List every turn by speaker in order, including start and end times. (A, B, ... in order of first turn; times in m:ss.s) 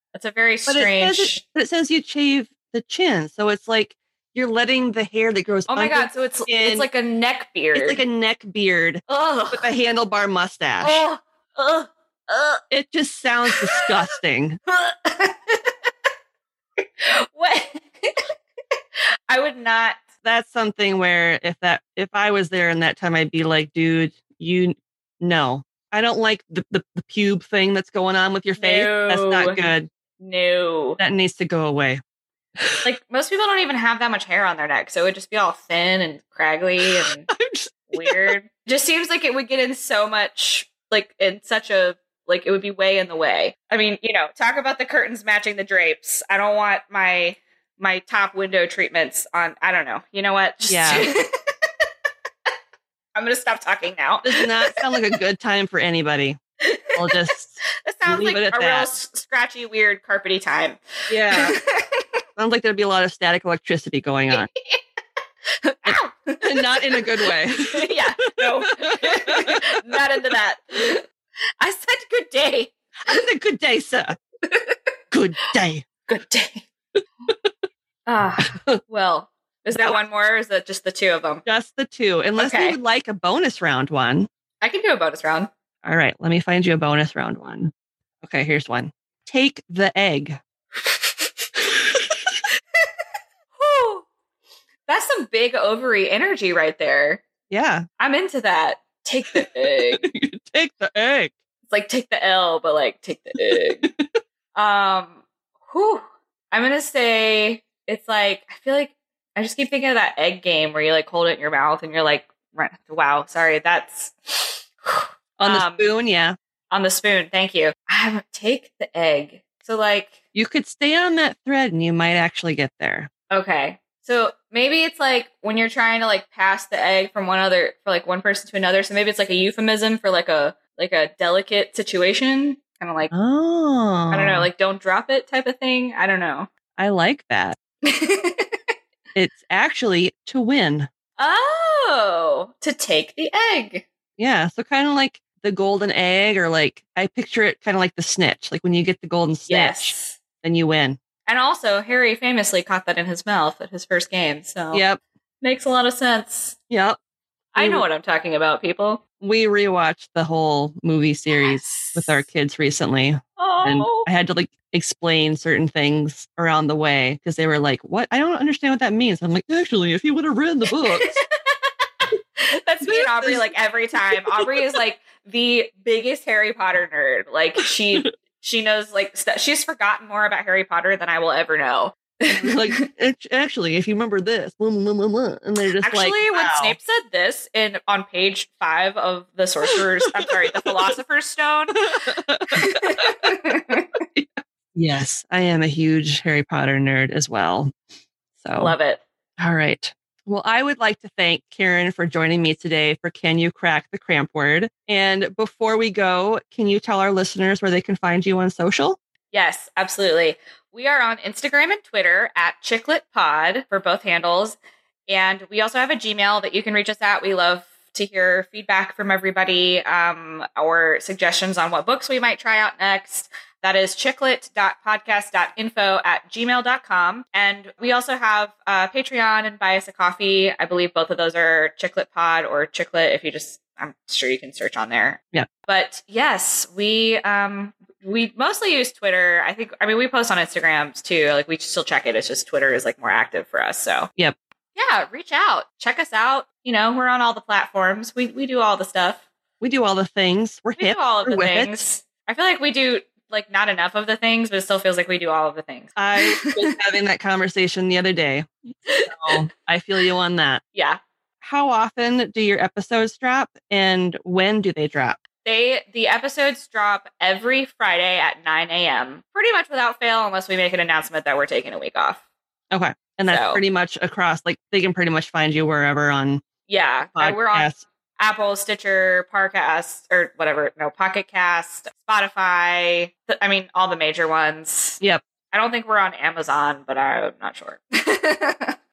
0:00.1-0:01.4 A
0:00.7-0:06.9 B
0:05.7-0:08.0 A
0:07.7-0:11.0 B
0:09.1-0:09.7 A
0:10.8-0:12.6 A
0:12.7-0:14.6 B
0:13.4-0:13.9 A
0:14.7-0:15.8 A
0:16.8-0:18.3 A
0:19.3-0:20.0 A
0:20.2-0:29.9 B
0:28.6-0:29.6 A
0:30.2-0:31.0 A
0:31.0-0:32.0 B
0:32.8-0:37.3 A
0:36.8-0:38.3 B
0:37.9-0:51.5 A
0:50.7-0:51.1 B
0:53.1-0:54.9 A
0:54.2-0:56.4 B
0:56.6-0:56.9 A
0:56.9-0:59.0 B
0:57.8-1:02.2 A
1:01.1-1:01.5 B
1:02.4-1:04.5 B
1:04.3-1:04.8 A
1:05.6-1:11.1 A
1:06.4-1:09.6 B
1:11.6-1:13.1 A
1:13.1-1:14.2 B
1:14.4-1:14.9 A
1:15.1-1:15.9 B
1:16.1-1:16.7 A
1:18.0-1:21.4 A
1:18.4-1:18.8 B
1:21.4-1:24.3 B
1:22.4-1:22.8 A
1:24.6-1:25.5 A
1:25.8-1:27.7 B
1:28.2-1:30.4 B
1:30.8-1:31.3 A
1:33.6-1:34.0 A
1:34.9-1:37.2 A
1:37.5-1:37.9 B
1:38.0-1:40.0 A
1:39.3-1:41.3 B
1:41.6-1:43.9 A
1:43.5-1:44.1 B
1:44.5-1:55.9 A
1:55.4-1:56.4 B
1:56.7-2:00.1 A
2:00.3-2:03.1 B
2:03.3-2:13.1 A
2:13.1-2:14.5 B
2:14.1-2:16.5 A
2:16.8-2:17.6 B
2:17.8-2:18.6 A
2:19.1-2:20.9 B
2:21.2-2:23.8 A
2:24.2-2:31.0 B
2:29.5-2:30.2 A
2:31.2-2:34.8 A
2:34.7-2:35.0 B
2:35.4-2:36.6 A
2:36.7-2:37.0 B
2:37.5-2:39.0 A
2:37.6-2:37.8 B
2:39.2-2:51.1 B
2:41.3-2:42.2 A
2:43.4-2:44.1 A
2:50.9-3:02.8 A
2:52.8-2:53.5 B
2:54.0-2:54.5 B
3:02.3-3:06.8 B
3:05.8-3:11.8 A
3:12.0-3:13.3 B
3:12.5-3:14.0 A
3:14.1-3:17.7 B
3:18.4-3:18.7 B
3:18.6-3:19.0 A
3:19.4-3:29.0 B
3:29.3-4:04.1 A
4:04.7-4:09.2 A
4:09.6-4:11.8 B
4:10.8-4:16.6 A
4:16.0-4:20.6 B
4:18.9-4:19.3 A
4:20.7-4:21.0 A
4:21.4-4:25.2 B
4:25.4-4:32.2 A
4:32.7-4:36.4 B
4:33.3-4:33.6 A
4:36.7-4:45.0 A
4:37.2-4:37.8 B
4:45.5-4:48.8 A